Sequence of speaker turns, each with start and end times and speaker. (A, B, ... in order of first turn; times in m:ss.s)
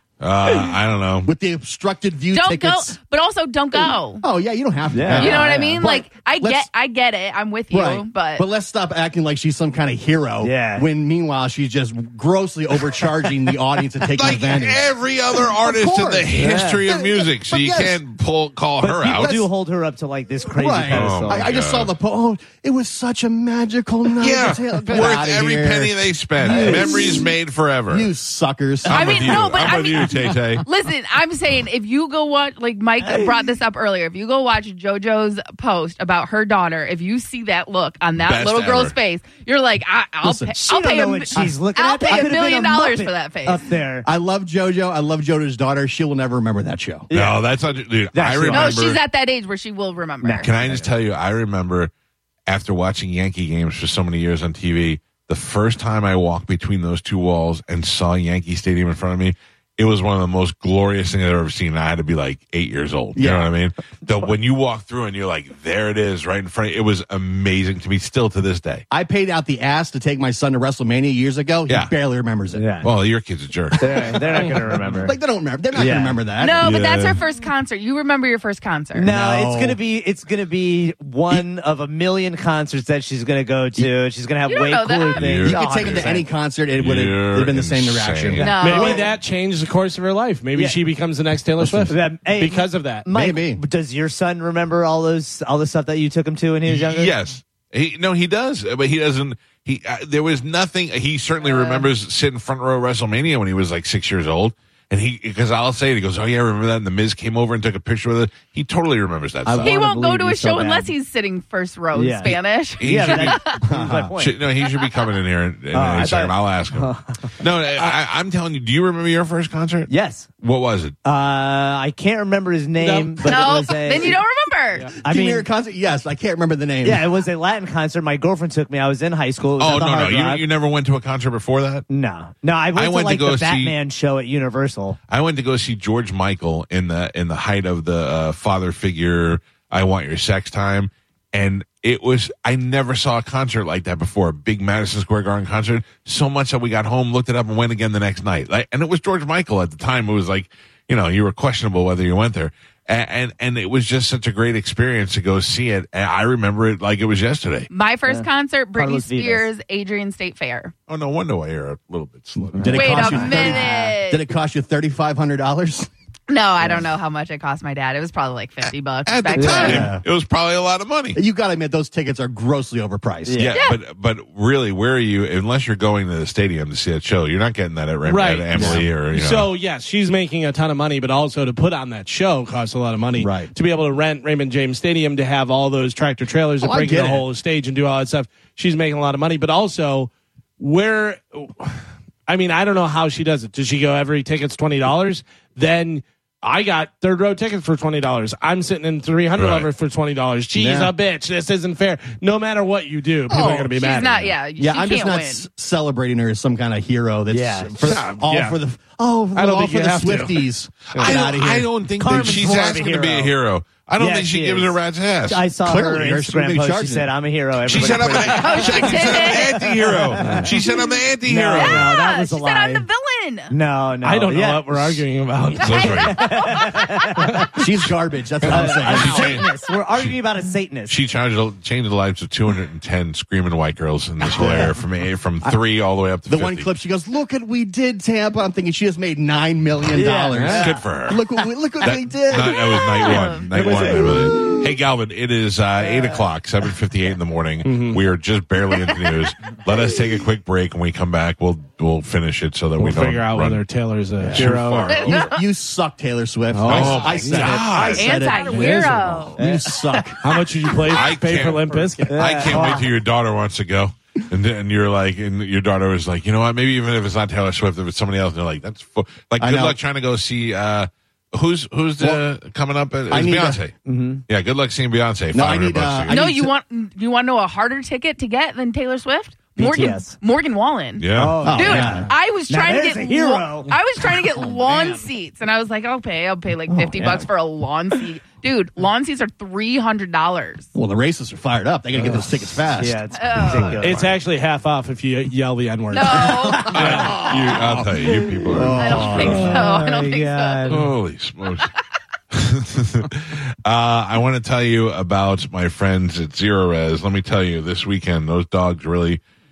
0:00.2-0:01.3 A
0:01.2-0:03.0 B
0:02.3-0:04.2 C
0:03.8-0:06.7 B
0:04.9-0:05.8 D
0:05.1-0:08.5 C
0:07.7-0:14.9 B
0:10.4-0:10.8 D
0:14.0-0:19.5 A
0:15.5-0:18.0 B
0:16.3-0:16.8 D
0:18.8-0:21.5 D
0:20.5-0:27.3 B
0:20.9-0:21.9 A
0:24.2-0:28.1 A
0:26.4-0:27.1 D
0:27.9-0:29.5 B
0:28.8-0:30.6 A
0:28.9-0:43.6 C
0:33.0-0:33.5 D
0:38.2-0:38.9 A
0:40.2-0:40.5 B
0:40.6-0:44.0 D
0:41.3-0:42.3 B
0:44.0-0:47.1 B
0:47.1-0:47.4 D
0:47.1-0:49.0 A
0:48.1-0:48.8 D
0:48.5-0:50.5 C
0:50.2-0:50.9 D
0:50.4-0:51.9 A
0:52.5-1:08.8 A
1:03.2-1:03.5 B
1:08.9-1:12.6 B
1:11.7-1:11.9 A
1:12.5-1:12.9 D
1:12.8-1:13.8 A
1:13.8-1:15.2 D
1:14.0-1:16.7 B
1:15.7-1:16.2 D
1:16.4-1:19.1 C
1:16.6-1:17.2 A
1:18.9-1:26.3 D
1:19.0-1:19.8 B
1:24.4-1:25.3 C
1:25.2-1:26.1 A
1:25.4-1:29.0 B
1:26.7-1:28.6 A
1:28.4-1:29.1 C
1:28.6-1:33.0 E
1:31.8-1:37.1 D
1:33.1-1:33.6 B
1:36.6-1:49.7 A
1:41.4-1:41.9 C
1:49.4-1:50.9 D
1:49.6-1:53.6 C
1:51.9-1:54.3 D
1:52.2-1:53.4 A
1:53.6-1:54.1 B
1:54.2-2:01.0 A
1:54.6-1:55.1 C
1:55.7-1:57.9 D
1:59.9-2:00.3 D
2:01.0-2:04.2 D
2:02.8-2:03.3 E
2:03.2-2:04.2 B
2:03.2-2:04.9 C
2:04.9-2:05.5 D
2:04.9-2:07.1 B
2:06.8-2:10.4 D
2:09.6-2:11.8 A
2:11.9-2:15.0 D
2:12.7-2:13.7 A
2:15.1-2:37.7 A
2:37.7-2:40.7 C
2:38.1-2:39.5 D
2:40.9-2:42.7 A
2:42.4-2:45.9 B
2:42.5-2:44.0 D
2:42.7-2:44.2 C
2:46.3-2:49.9 C
2:48.6-2:51.2 A
2:49.3-2:49.9 D
2:49.6-2:50.0 B
2:51.1-2:53.5 B
2:53.2-2:53.6 D
2:53.4-2:59.5 A
2:53.5-2:53.8 C
2:58.1-3:24.4 E
2:58.6-2:58.8 B
3:03.2-3:03.5 B
3:06.6-3:07.2 B
3:19.4-3:19.7 A
3:20.6-3:20.9 B
3:23.3-3:23.9 B
3:23.8-3:25.5 C
3:24.6-3:31.7 B
3:27.3-3:27.7 D
3:27.8-3:28.6 E
3:29.3-3:31.1 E
3:30.9-3:35.4 A
3:32.0-3:33.3 D
3:34.0-3:39.2 D
3:35.6-3:37.1 B
3:37.6-3:41.9 A
3:38.3-3:39.9 C
3:40.1-3:40.4 D
3:40.6-3:41.0 C
3:41.2-3:42.8 D
3:41.5-3:43.5 C
3:43.5-3:45.0 D
3:44.0-3:46.3 E
3:45.6-3:47.2 C
3:45.6-3:46.2 A
3:46.1-3:47.5 D
3:47.6-3:49.4 B
3:48.4-3:51.0 D
3:48.4-3:49.4 A
3:48.9-3:49.4 C
3:50.9-3:56.7 A
3:54.3-3:54.7 B
3:56.3-4:03.9 B
3:59.9-4:00.8 D
4:00.5-4:01.2 A
4:01.8-4:13.6 A
4:02.4-4:03.8 C
4:03.6-4:04.1 D
4:07.6-4:08.0 E
4:08.8-4:09.2 C
4:12.8-4:15.1 E
4:14.2-4:20.2 B
4:14.3-4:15.2 A
4:14.9-4:15.4 C
4:16.5-4:19.2 E
4:16.6-4:18.2 A
4:17.8-4:19.4 C
4:19.4-4:20.0 D
4:20.2-4:22.5 E
4:20.9-4:33.7 A
4:22.0-4:22.9 D
4:29.4-4:29.8 B
4:33.1-4:33.6 B
4:33.8-4:34.2 D
4:34.3-4:36.2 A
4:35.3-4:36.5 B
4:36.1-4:50.7 C
4:39.6-4:40.1 D
4:41.0-4:41.4 A
4:41.1-4:43.7 D
4:41.4-4:42.1 B
4:46.7-4:47.2 B
4:47.0-4:47.2 D
4:50.7-4:53.0 B
4:52.0-4:54.0 D
4:53.2-4:53.8 C
4:53.3-4:54.2 A
4:53.8-4:57.2 E
4:55.9-4:56.7 C
4:56.5-4:57.2 D
4:56.6-4:59.5 A
4:58.0-5:00.9 D
4:58.5-4:59.6 B
4:58.7-5:00.7 C
5:00.7-5:01.7 A
5:02.3-5:09.2 A